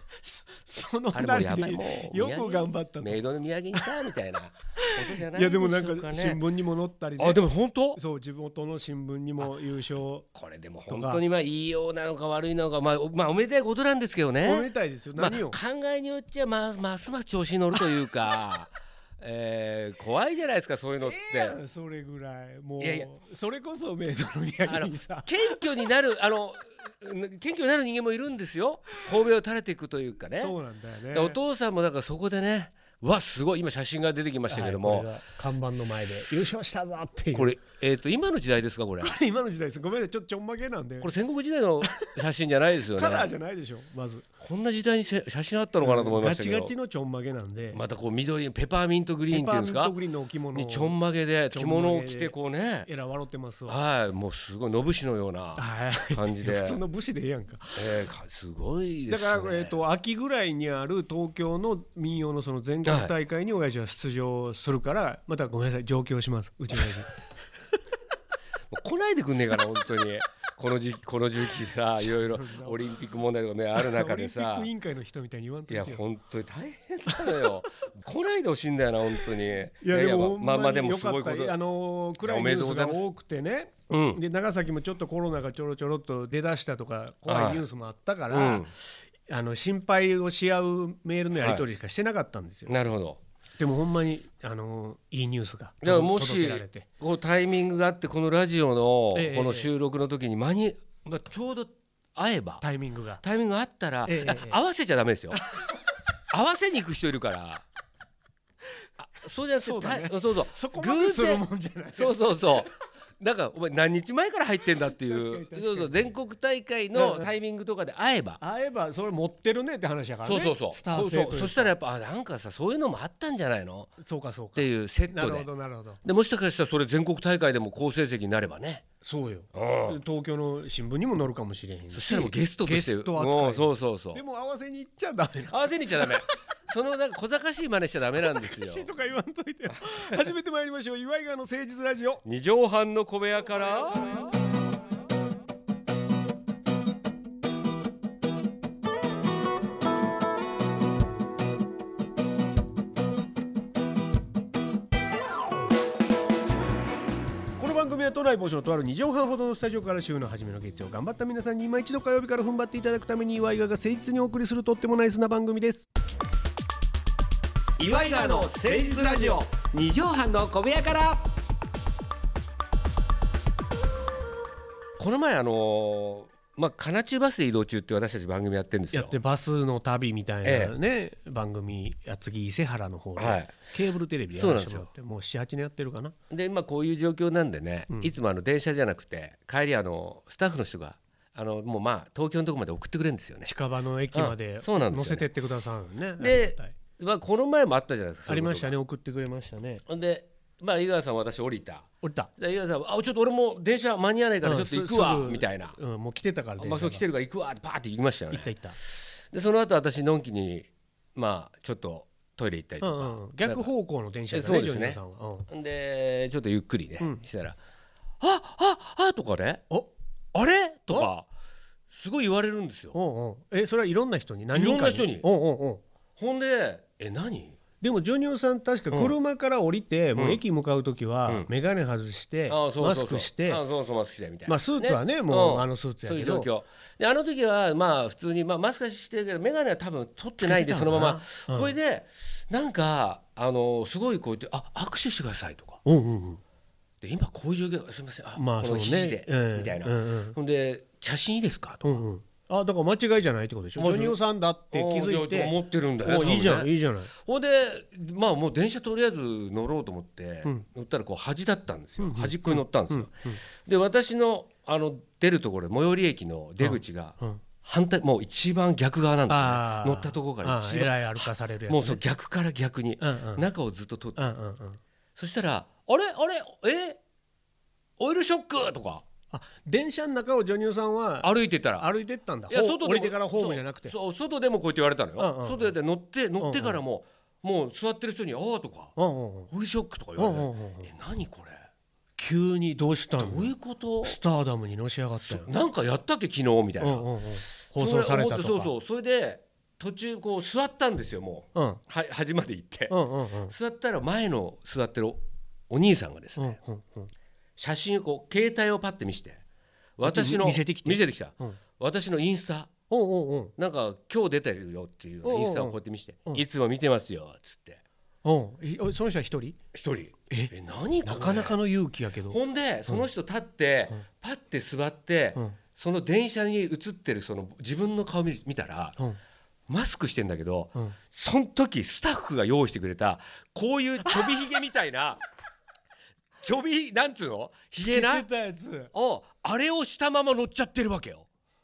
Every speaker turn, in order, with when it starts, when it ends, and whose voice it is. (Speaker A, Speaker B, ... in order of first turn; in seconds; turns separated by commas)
Speaker A: 0.2-3.2, Speaker B: 1.1-6.4, Speaker A: 4.8-10.3, Speaker B: 7.2-8.0, Speaker B: 10.3-21.6, Speaker A: 10.9-11.2, Speaker A: 14.4-15.6, Speaker A: 21.0-25.6, Speaker B: 22.8-23.1, Speaker B: 24.6-30.5, Speaker A: 30.3-31.4, Speaker B: 31.1-35.1, Speaker A: 34.5-37.6, Speaker B: 37.3-39.1, Speaker A: 39.0-41.1, Speaker B: 41.0-43.3, Speaker A: 41.8-42.1, Speaker A: 42.9-44.2, Speaker B: 44.4-46.7, Speaker A: 45.8-47.8, Speaker B: 47.7-50.0, Speaker A: 49.3-51.0, Speaker B: 50.5-52.9, Speaker A: 51.5-52.3, Speaker A: 52.8-53.8, Speaker B: 53.7-56.8, Speaker A: 55.5-58.1, Speaker B: 57.8-59.8, Speaker A: 59.1-67.2, Speaker B: 62.8-63.1, Speaker B: 68.7-74.7, Speaker A: 72.0-72.8, Speaker A: 73.8-76.0, Speaker B: 75.7-81.6, Speaker A: 77.1-77.6, Speaker A: 79.8-92.7, Speaker B: 82.2-83.0, Speaker B: 83.9-84.2, Speaker B: 87.3-87.6, Speaker B: 88.3-88.7, Speaker B: 91.3-91.6, Speaker B: 92.7-93.2, Speaker A: 93.6-96.9, Speaker B: 95.8-102.6, Speaker A: 99.1-99.7, Speaker A: 102.6-103.2, Speaker B: 103.2-105.4, Speaker A: 104.0-104.6, Speaker A: 105.3-105.6, Speaker B: 106.3-107.6, Speaker B: 109.0-118.4, Speaker A: 109.6-112.6, Speaker A: 115.1-116.1, Speaker A: 116.9-117.3, Speaker A: 118.4-121.7, Speaker B: 120.2-123.9, Speaker A: 124.0-126.0, Speaker B: 124.5-125.5, Speaker B: 126.0-128.8, Speaker A: 129.0-136.2, Speaker B: 129.5-130.0, Speaker B: 131.9-134.2, Speaker B: 135.5-138.9, Speaker A: 138.2-142.2, Speaker B: 142.2-144.3, Speaker A: 157.6-165.9, Speaker B: 167.8-171.3, Speaker A: 167.8-169.5, Speaker B: 175.0-179.2, Speaker A: 178.9-186.1, Speaker B: 180.4-180.7, Speaker B: 183.2-183.5, Speaker B: 184.3-184.9, Speaker B: 186.3-193.5, Speaker A: 193.4-196.7, Speaker B: 194.1-195.3, Speaker B: 196.2-198.8, Speaker A: 198.3-199.8, Speaker B: 199.9-205.8, Speaker A: 202.0-202.3, Speaker A: 204.4-207.1, Speaker B: 206.6-213.7, Speaker A: 208.3-208.8, Speaker A: 212.8-215.5, Speaker B: 214.3-217.6, Speaker B: 218.2-219.6, Speaker B: 220.3-221.3, Speaker B: 221.9-222.9, Speaker A: 222.9-225.8, Speaker B: 224.5-225.3, Speaker B: 226.2-227.6, Speaker A: 227.8-233.6, Speaker B: 232.5-245.8, Speaker A: 234.4-236.5, Speaker A: 240.4-241.8, Speaker A: 245.8-246.4, Speaker B: 247.0-251.9, Speaker A: 248.3-250.3, Speaker A: 251.8-257.1, Speaker B: 253.8-254.2, Speaker B: 254.7-256.7, Speaker B: 257.2-263.1, Speaker A: 262.0-263.4, Speaker B: 263.6-274.2, Speaker A: 266.6-267.4, Speaker A: 269.3-272.0, Speaker A: 273.0-273.4, Speaker A: 274.1-274.8, Speaker B: 275.1-277.0, Speaker B: 278.0-279.1, Speaker A: 279.3-283.9, Speaker B: 281.2-281.9, Speaker B: 282.5-288.9, Speaker A: 285.2-285.8, Speaker A: 286.4-286.8, Speaker A: 288.9-289.5, Speaker B: 289.5-291.7, Speaker A: 290.1-290.9, Speaker A: 292.2-293.5, Speaker B: 293.2-294.2, Speaker A: 294.0-295.5, Speaker B: 295.2-297.1, Speaker A: 296.8-298.7, Speaker B: 297.7-302.9, Speaker A: 301.5-301.8, Speaker A: 302.9-303.5, Speaker B: 303.5-306.6, Speaker A: 306.4-307.1, Speaker B: 307.6-309.4, Speaker B: 310.0-312.7, Speaker A: 310.0-311.6, Speaker A: 312.9-313.5, Speaker B: 313.6-317.8, Speaker A: 315.2-316.4, Speaker A: 318.2-319.6, Speaker B: 319.7-321.6, Speaker A: 321.0-323.1, Speaker B: 322.3-329.0, Speaker B: 329.7-335.2, Speaker A: 334.0-334.4, Speaker B: 336.4-338.2, Speaker A: 337.8-338.9, Speaker B: 338.9-341.3